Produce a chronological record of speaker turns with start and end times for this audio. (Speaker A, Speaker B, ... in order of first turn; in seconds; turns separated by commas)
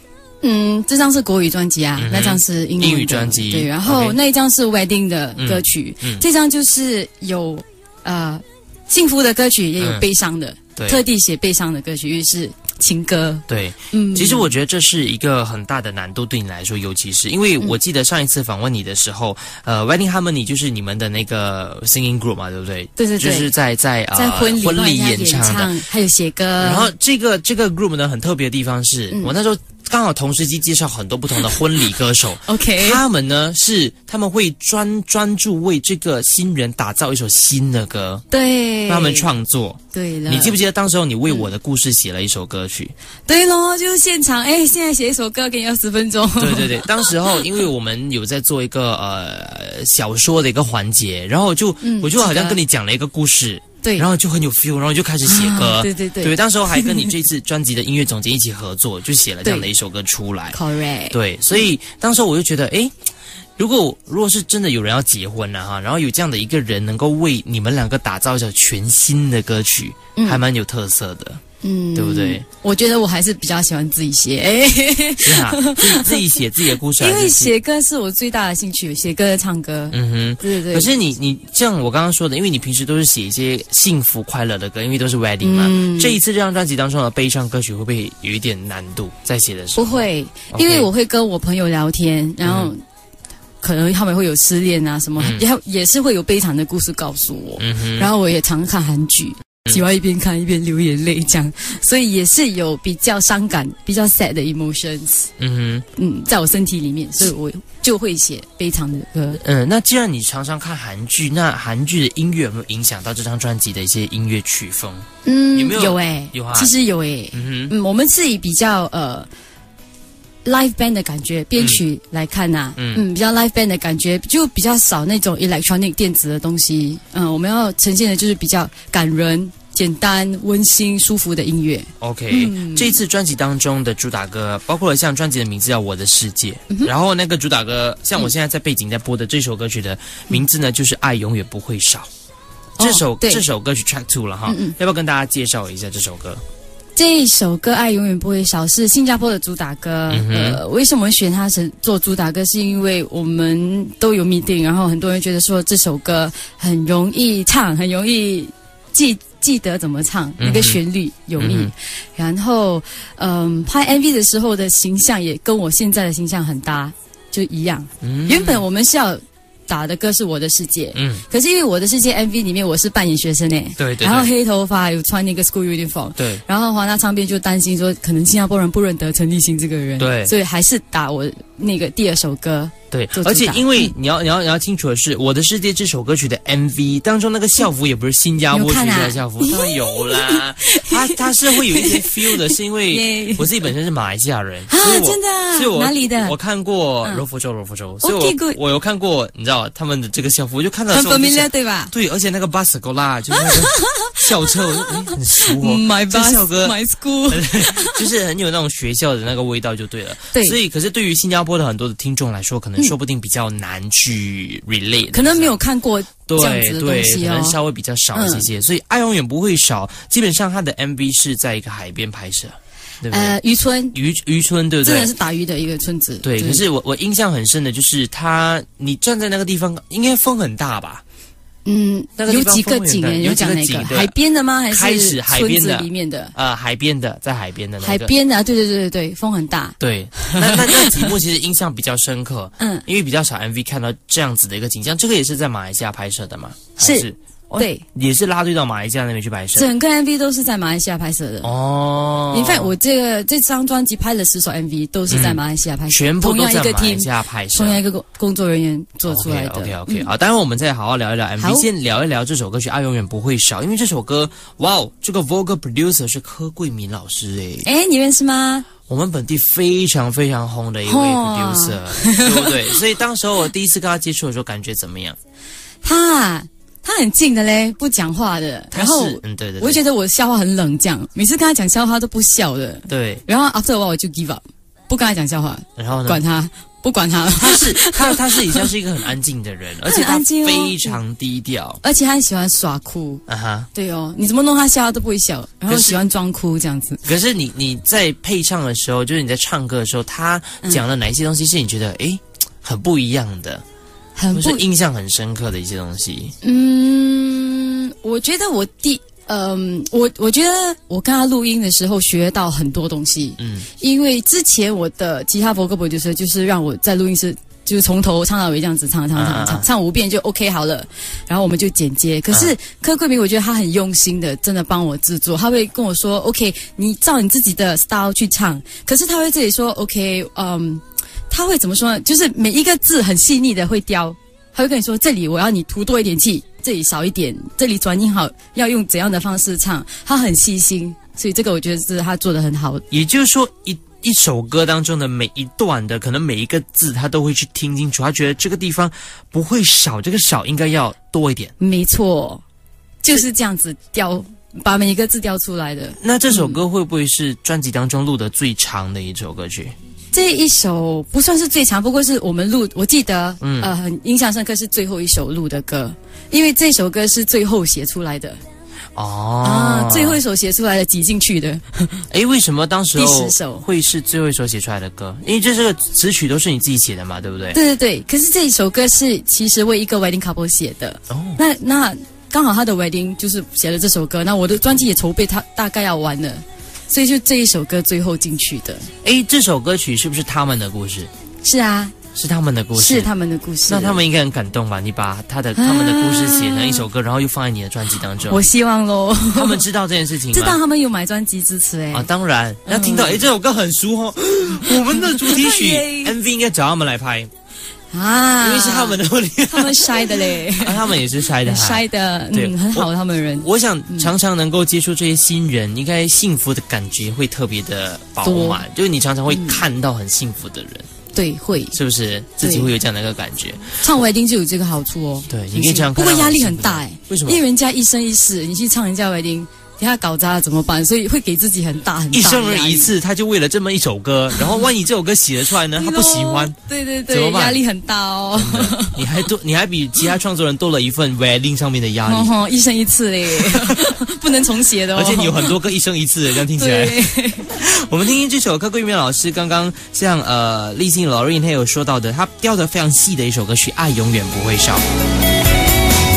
Speaker A: 0.4-14.5, Speaker B: 2.0-4.2, Speaker B: 5.4-6.2, Speaker B: 10.8-11.0, Speaker B: 13.5-25.7, Speaker A: 23.0-23.5, Speaker A: 24.1-26.9, Speaker B: 26.6-38.2, Speaker A: 32.5-33.0, Speaker A: 38.3-39.3, Speaker B: 38.9-42.9, Speaker A: 39.9-40.6, Speaker A: 43.3-47.1, Speaker B: 46.4-60.6, Speaker A: 51.8-52.6, Speaker A: 55.2-57.1, Speaker A: 59.4-59.7, Speaker A: 60.5-61.1, Speaker B: 61.1-62.9, Speaker B: 63.6-71.4, Speaker A: 70.2-70.4, Speaker A: 71.6-76.2, Speaker B: 71.9-72.4, Speaker B: 75.2-77.5, Speaker A: 77.0-80.9, Speaker B: 79.9-90.9, Speaker A: 85.4-86.2, Speaker A: 89.8-92.8, Speaker B: 92.4-92.7, Speaker A: 93.6-105.3, Speaker B: 95.2-95.4, Speaker B: 97.6-98.1, Speaker B: 105.4-105.8, Speaker A: 106.0-109.4, Speaker B: 109.3-116.7, Speaker A: 115.2-119.3, Speaker B: 117.3-117.7, Speaker A: 120.4-133.0, Speaker B: 122.8-123.0, Speaker B: 132.0-142.1, Speaker A: 142.8-143.4, Speaker B: 142.8-146.4, Speaker A: 144.4-144.8, Speaker A: 146.9-183.9, Speaker B: 150.1-150.6, Speaker B: 160.4-160.8, Speaker B: 161.4-161.7, Speaker B: 168.0-168.6, Speaker B: 170.9-171.2, Speaker B: 173.8-174.3, Speaker B: 176.2-176.4, Speaker B: 180.0-180.3, Speaker B: 182.9-206.7, Speaker A: 188.5-193.5, Speaker A: 194.7-196.3, Speaker A: 198.0-198.6, Speaker A: 200.9-201.9, Speaker A: 203.4-208.1, Speaker B: 207.3-215.5, Speaker A: 210.3-210.6, Speaker A: 215.1-217.6, Speaker B: 216.3-223.3, Speaker A: 218.1-218.5, Speaker A: 223.1-224.0, Speaker B: 223.9-225.1, Speaker A: 224.8-226.6, Speaker B: 226.2-231.0, Speaker A: 231.6-236.3, Speaker B: 232.2-234.1, Speaker B: 234.7-238.1, Speaker A: 237.8-241.1, Speaker B: 239.8-249.7, Speaker A: 242.6-242.8, Speaker A: 246.8-247.8, Speaker A: 249.5-251.5, Speaker B: 251.4-252.7, Speaker A: 252.3-260.1, Speaker B: 255.1-257.8, Speaker B: 259.1-267.7, Speaker A: 261.4-261.7, Speaker A: 267.6-268.7, Speaker B: 268.9-275.2, Speaker A: 270.8-272.7, Speaker A: 275.8-288.7, Speaker B: 278.7-279.8, Speaker B: 282.9-283.2, Speaker B: 285.8-286.2, Speaker B: 287.3-291.8, Speaker A: 289.8-291.0, Speaker A: 291.8-293.2, Speaker B: 293.3-293.7, Speaker A: 293.7-297.0, Speaker B: 295.7-296.0, Speaker B: 297.0-303.6, Speaker A: 304.1-304.6, Speaker B: 304.3-306.3, Speaker A: 306.4-342.8, Speaker B: 313.4-313.7, Speaker B: 319.1-319.7, Speaker B: 322.3-322.5, Speaker B: 342.9-351.5, Speaker A: 351.6-352.4, Speaker A: 353.0-356.6, Speaker B: 356.0-359.7, Speaker A: 360.1-368.4, Speaker B: 363.4-363.7, Speaker B: 368.9-370.2, Speaker A: 369.4-372.1, Speaker B: 372.1-377.6, Speaker A: 372.9-373.6, Speaker A: 377.5-388.9, Speaker B: 381.1-381.4, Speaker B: 389.0-391.1, Speaker A: 391.4-391.9, Speaker B: 392.1-393.1, Speaker A: 392.8-394.0, Speaker B: 393.7-398.4, Speaker A: 395.6-396.8, Speaker A: 398.3-399.6, Speaker B: 399.3-400.6, Speaker A: 400.3-402.1, Speaker B: 401.9-407.3, Speaker A: 402.6-403.2, Speaker A: 404.7-406.1, Speaker A: 407.9-414.1, Speaker B: 408.4-420.9, Speaker A: 418.2-418.6, Speaker A: 419.3-419.6, Speaker A: 421.1-421.8, Speaker B: 421.7-423.8, Speaker A: 422.4-422.7, Speaker A: 423.8-432.9, Speaker B: 425.3-427.4, Speaker B: 432.1-436.6, Speaker A: 434.3-434.6, Speaker A: 435.7-439.1, Speaker B: 437.1-437.6, Speaker B: 438.3-442.3, Speaker A: 442.0-445.6, Speaker B: 443.3-444.0, Speaker B: 444.9-454.8, Speaker A: 446.5-447.5